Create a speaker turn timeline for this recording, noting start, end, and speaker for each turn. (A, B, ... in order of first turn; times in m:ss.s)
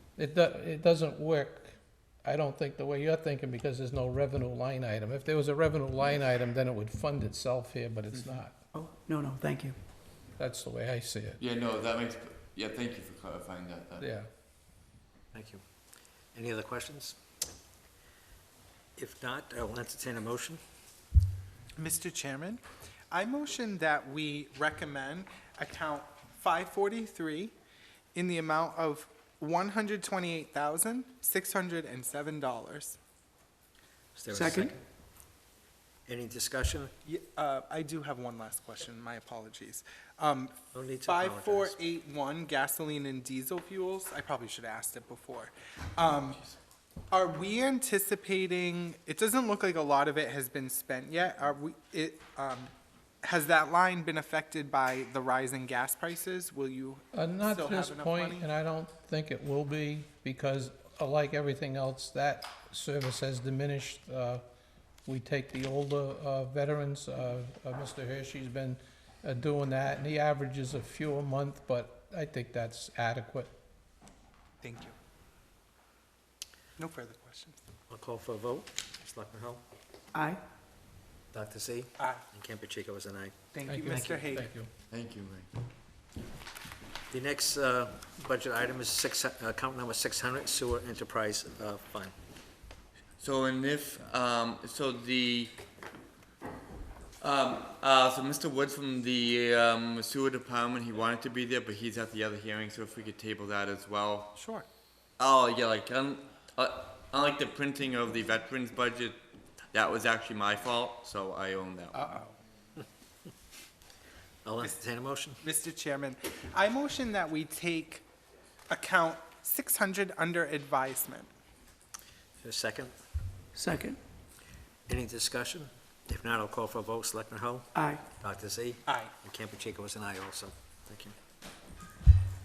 0:00.2-0:08.6 A
0:08.7-0:09.8 B
0:10.4-0:11.4 A
0:11.4-0:14.1 C
0:14.0-0:14.3 A
0:15.3-0:15.6 D
0:16.3-0:17.2 D
0:19.0-0:20.6 D
0:21.8-0:27.5 E
0:28.1-0:33.0 E
0:34.1-0:34.8 D
0:34.3-0:34.7 B
0:36.1-0:36.9 D
0:37.0-0:46.4 E
0:40.7-0:41.8 D
0:47.1-0:52.7 E
0:53.2-0:58.5 E
0:57.1-1:04.4 A
1:05.0-1:13.5 A
1:14.6-1:14.9 E
1:16.8-1:17.6 E
1:17.9-1:19.6 D
1:20.1-1:20.4 B
1:21.3-1:23.3 D
1:23.5-1:24.5 E
1:23.7-1:24.7 A
1:24.9-1:25.5 C
1:27.1-1:32.1 D
1:33.2-1:35.5 C
1:37.2-1:44.3 C
1:44.3-1:44.6 E
1:45.2-1:49.2 C
1:49.7-1:52.2 C
1:51.9-1:52.3 E
1:54.4-1:55.4 D
1:55.4-1:58.0 E
1:58.7-2:01.3 E
2:02.4-2:02.9 D
2:03.5-2:04.0 B
2:04.9-2:11.1 D
2:07.7-2:08.0 B
2:08.9-2:09.1 E